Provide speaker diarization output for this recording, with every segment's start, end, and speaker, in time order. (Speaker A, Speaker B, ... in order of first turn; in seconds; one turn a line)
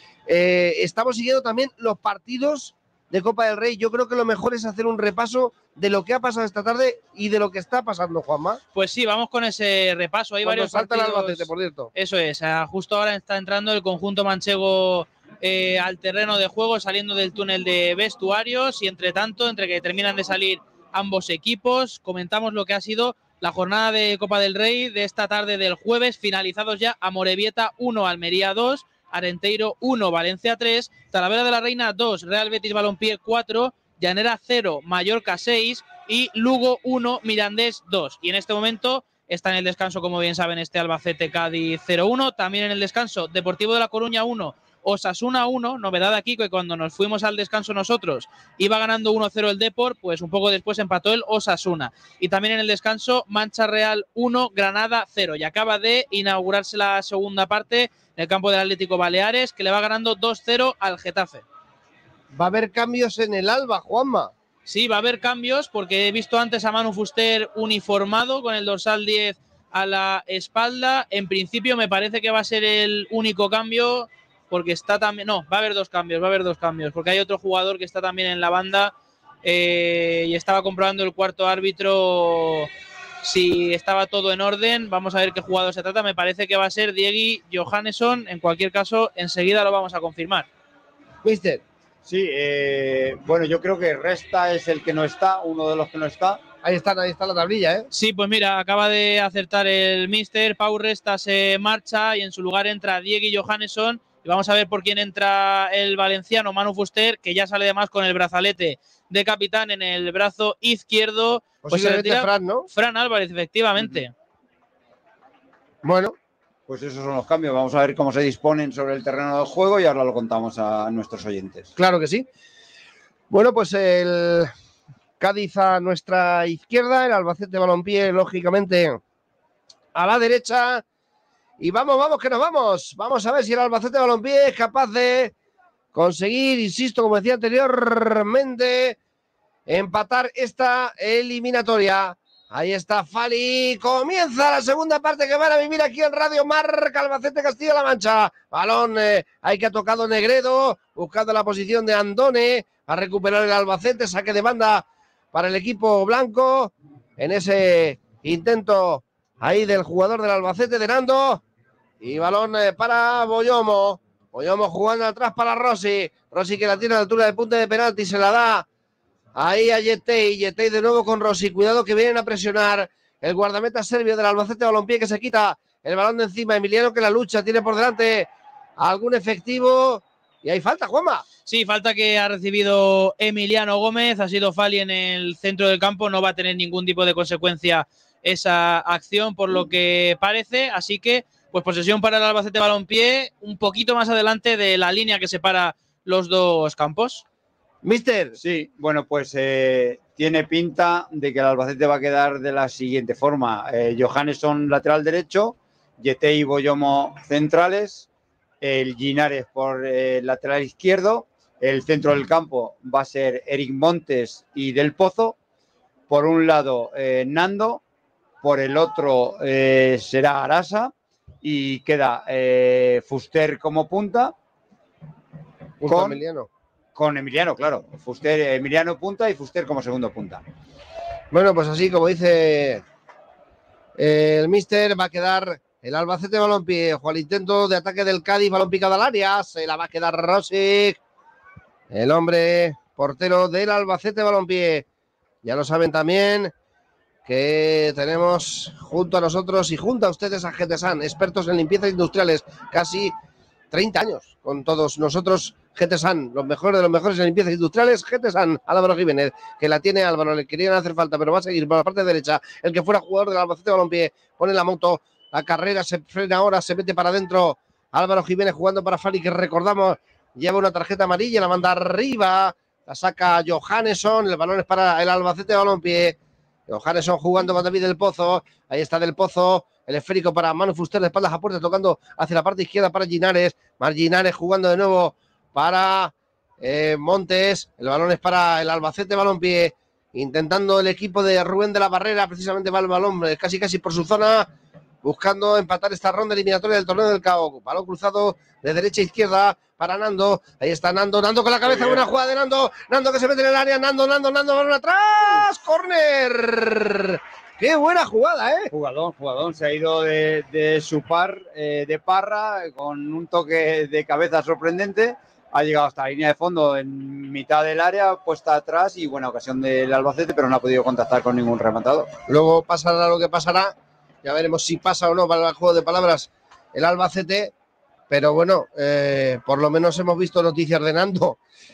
Speaker A: 0.3-8.6
Speaker B: 8.7-61.4
Speaker A: 10.4-11.9
Speaker A: 62.3-64.3
Speaker B: 64.7-82.7
Speaker B: 83.2-90.5
Speaker A: 91.2-91.6
Speaker C: 92.0-96.4
Speaker A: 96.6-97.9
Speaker B: 97.9-114.1
Speaker A: 111.6-112.7
Speaker A: 115.8-116.2
Speaker C: 116.7-121.7
Speaker A: 121.8-122.3
Speaker A: 123.3-124.5
Speaker A: 125.2-129.0
Speaker A: 129.9-130.8
Speaker A: 131.6-135.3
Speaker A: 135.9-139.0
Speaker A: 139.7-161.4
Speaker A: 162.0-168.7
Speaker A: 169.3-181.2
Speaker B: 181.5-197.2
Speaker A: 197.8-198.3
Speaker C: 198.4-208.1
Speaker C: 208.6-215.4
Speaker C: 216.1-217.8
Speaker C: 218.4-224.3
Speaker A: 225.8-226.5
Speaker C: 225.9-226.2
Speaker C: 226.9-230.4
Speaker A: 231.3-232.8
Speaker A: 234.0-241.0
Speaker A: 241.9-244.8
Speaker A: 245.4-246.5
Speaker A: 247.2-253.1
Speaker A: 253.7-276.2
Speaker A: 276.7-294.5
Speaker A: 295.0-308.7
Speaker C: 301.6-302.0
Speaker C: 308.7-322.1
Speaker A: 322.3-327.5
Speaker A: 328.1-331.4